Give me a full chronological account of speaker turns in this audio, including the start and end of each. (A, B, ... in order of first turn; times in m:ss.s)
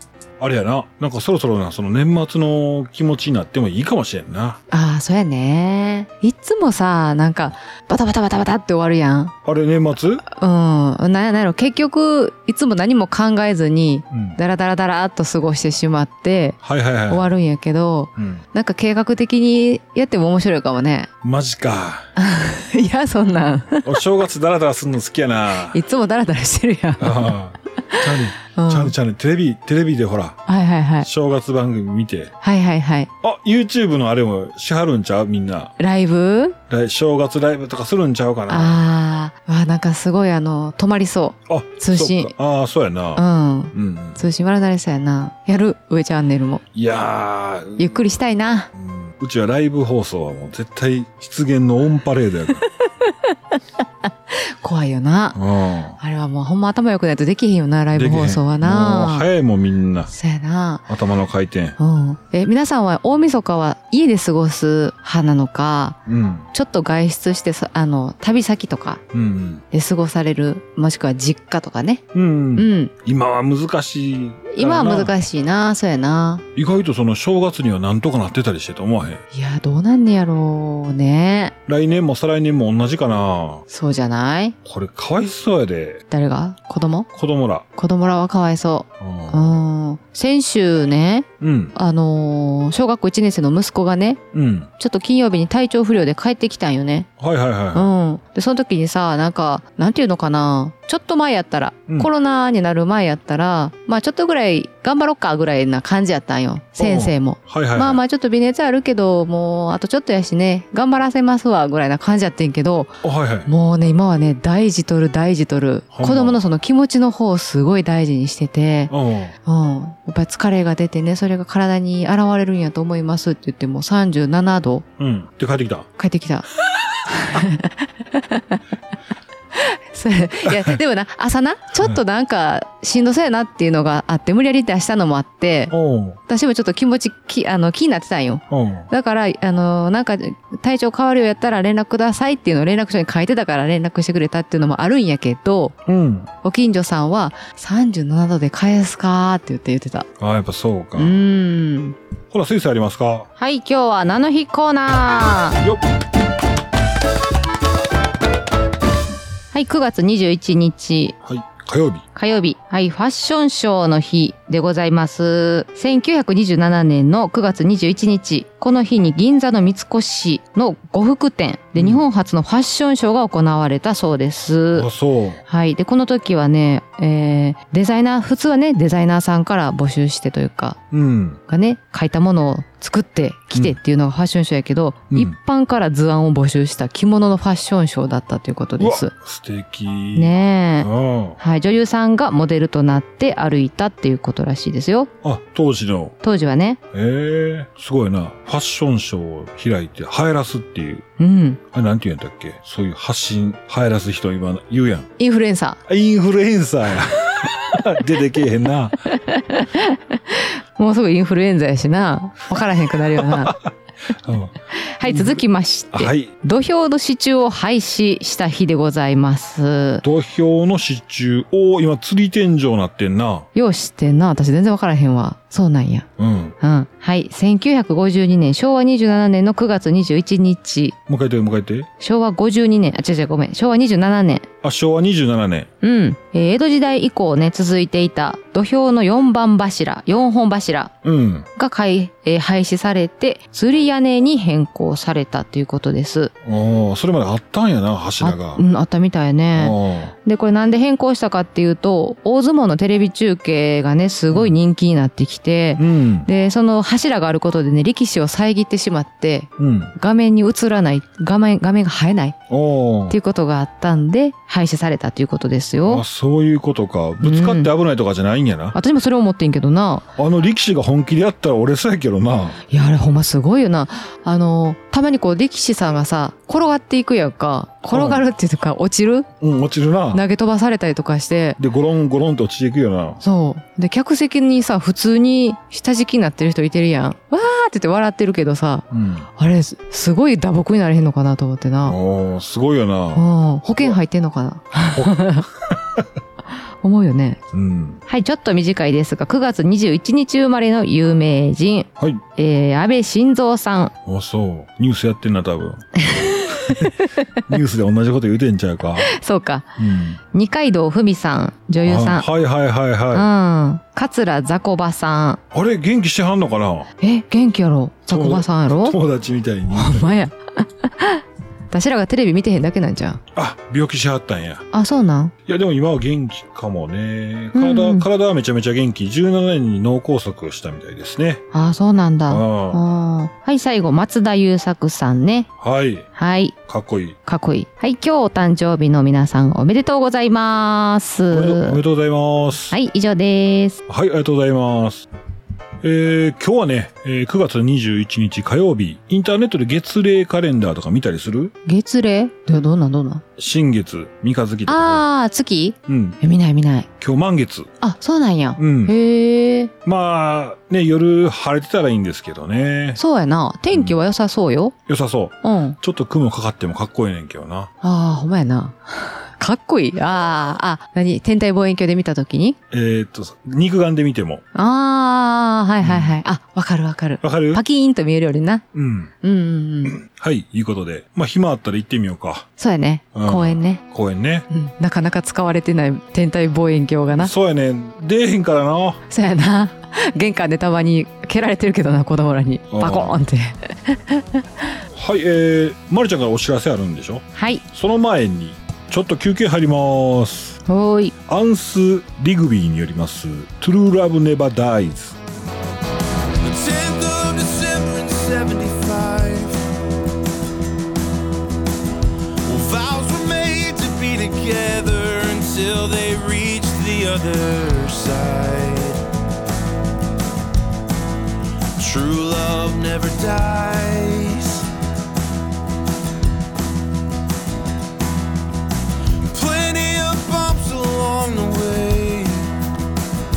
0:00.4-0:04.6 A
0:04.7-0:09.3 B
0:09.4-0:10.2 A
0:10.3-0:21.1 B
0:14.1-0:14.4 A
0:16.6-0:17.3 A
0:18.2-0:18.4 A
0:21.2-0:22.1 A
0:22.2-0:24.0 B
0:23.8-0:25.8 A
0:25.7-0:27.3 B
0:27.0-0:30.4 A
0:27.9-0:28.9 B
0:30.5-0:31.1 B
0:31.0-0:32.3 A
0:32.4-0:33.1 B
0:33.2-0:35.7 A
0:35.8-0:36.6 B
0:36.7-0:38.8 A
0:38.5-0:42.3 B
0:41.5-0:44.2 A
0:43.2-0:46.6 B
0:46.7-0:48.0 A
0:47.8-0:48.7 B
0:48.7-0:52.6 A
0:52.6-0:53.3 B
0:54.0-0:55.4 B
0:55.3-0:56.0 A
0:56.0-0:59.3 B
0:57.9-1:00.1 A
1:00.1-1:00.9 B
1:00.9-1:01.8 A
1:01.8-1:06.0 B
1:06.1-1:06.5 A
1:06.5-1:09.0 B
1:09.1-1:09.6 A
1:09.7-1:12.0 B
1:12.1-1:15.1 A
1:12.6-1:12.9 B
1:14.5-1:16.4 B
1:16.6-1:19.2 A
1:19.3-1:21.6 B
1:21.7-1:23.6 A
1:23.7-1:24.6 B
1:24.6-1:26.0 A
1:26.1-1:27.1 B
1:27.1-1:27.6 A
1:27.8-1:34.2 B
1:29.0-1:29.6 A
1:31.4-1:31.8 A
1:34.3-1:34.7 A
1:34.8-1:37.1 B
1:37.2-1:37.9 A
1:37.7-1:58.9 B
1:46.8-1:48.0 A
1:53.0-1:53.5 A
1:55.9-1:56.4 A
1:58.9-1:59.4 A
1:59.4-2:04.8 B
2:05.0-2:05.9 A
2:06.0-2:08.6 B
2:09.5-2:15.7 B
2:10.4-2:10.8 A
2:15.7-2:16.2 A
2:16.2-2:25.8 B
2:18.5-2:18.9 A
2:25.9-2:26.3 A
2:26.4-2:30.1 B
2:30.2-2:31.2 A
2:31.0-2:32.0 B
2:32.3-2:33.3 A
2:33.4-2:35.6 B
2:39.5-2:41.2 B
2:41.2-2:42.0 A
2:42.2-2:54.9 B
2:51.8-2:52.0 A
2:54.7-2:55.4 A
2:55.5-3:00.8 B
3:00.9-3:01.4 A
3:01.5-3:09.1 B
3:08.8-3:11.4 A
3:10.2-3:15.1 B
3:15.2-3:16.2 A
3:16.2-3:16.8 B
3:16.9-3:21.0 A
3:21.2-3:21.6 B
3:21.7-3:25.1 A
3:25.2-3:25.8 B
3:25.9-3:29.0 A
3:29.1-3:33.6 B
3:33.2-3:33.6 A
3:34.2-3:36.3 A
3:34.7-3:40.0 B
3:40.0-3:43.4 A
3:43.5-3:46.1 B
3:46.2-3:46.6 A
3:46.6-3:51.0 B
3:51.1-3:51.9 A
3:52.0-3:54.4 B
3:54.6-3:55.7 A
3:55.8-4:00.9 B
4:01.0-4:01.5 A
4:01.6-4:06.3 B
4:06.4-4:08.6 A
4:08.2-4:22.4 B
4:09.6-4:10.1 A
4:15.8-4:16.3 A
4:19.6-4:19.9 A
4:22.5-4:23.2 A
4:23.1-4:26.0 B
4:25.8-4:28.8 A
4:27.2-4:27.7 B
4:28.7-4:30.1 B
4:30.2-4:32.6 A
4:32.7-4:39.3 B
4:37.9-4:38.2 A
4:39.4-4:40.2 A
4:40.1-4:41.6 B
4:41.6-4:43.2 A
4:43.2-4:52.0 B
4:48.9-4:49.3 A
4:51.8-4:54.0 A
4:53.2-4:55.4 B
4:54.9-4:55.7 A
4:56.8-4:57.4 B
4:57.5-4:58.0 A
4:58.1-5:03.9 B
5:04.1-5:05.8 A
5:06.0-5:07.1 B
5:07.4-5:09.1 A
5:09.0-5:12.2 B
5:09.8-5:10.2 A
5:11.8-5:13.3 A
5:13.1-5:15.4 B
5:15.5-5:16.9 A
5:17.0-5:19.0 B
5:18.1-5:20.2 A
5:19.7-5:23.2 B
5:23.4-5:24.6 A
5:24.7-5:25.3 B
5:25.4-5:31.4 A
5:27.5-5:28.1 B
5:31.5-5:35.5 B
5:32.3-5:32.8 A
5:35.6-5:36.1 A
5:36.2-5:36.6 B
5:36.7-5:37.2 A
5:37.3-5:41.8 B
5:41.3-5:42.8 A
5:42.7-5:43.8 B
5:43.9-5:45.1 A
5:45.8-5:51.5 A
5:51.6-5:53.2 B
5:53.4-5:55.0 A
5:54.7-5:56.9 B
5:55.9-5:56.2 A
5:57.0-5:57.7 A
5:57.8-5:59.7 B
5:58.6-5:58.9 A
5:59.8-6:03.0 A
6:03.0-6:04.7 B
6:04.9-6:07.7 A
6:05.4-6:05.8 B
6:07.8-6:12.6 B
6:12.7-6:14.4 A
6:14.5-6:18.6 B
6:15.8-6:16.2 A
6:17.2-6:17.6 A
6:18.7-6:19.1 A
6:19.2-6:20.0 B
6:20.0-6:22.5 A
6:22.6-6:23.8 B
6:23.2-6:24.5 A
6:24.5-6:27.3 B
6:27.1-6:29.0 A
6:29.1-6:34.7 B
6:32.7-6:33.2 A
6:34.9-6:40.6 A
6:37.3-6:37.6 B
6:40.7-6:41.1 B
6:41.3-6:45.2 A
6:46.4-6:49.7 C
6:52.4-6:59.0 C
7:01.8-7:04.7 C
7:09.3-7:12.6 C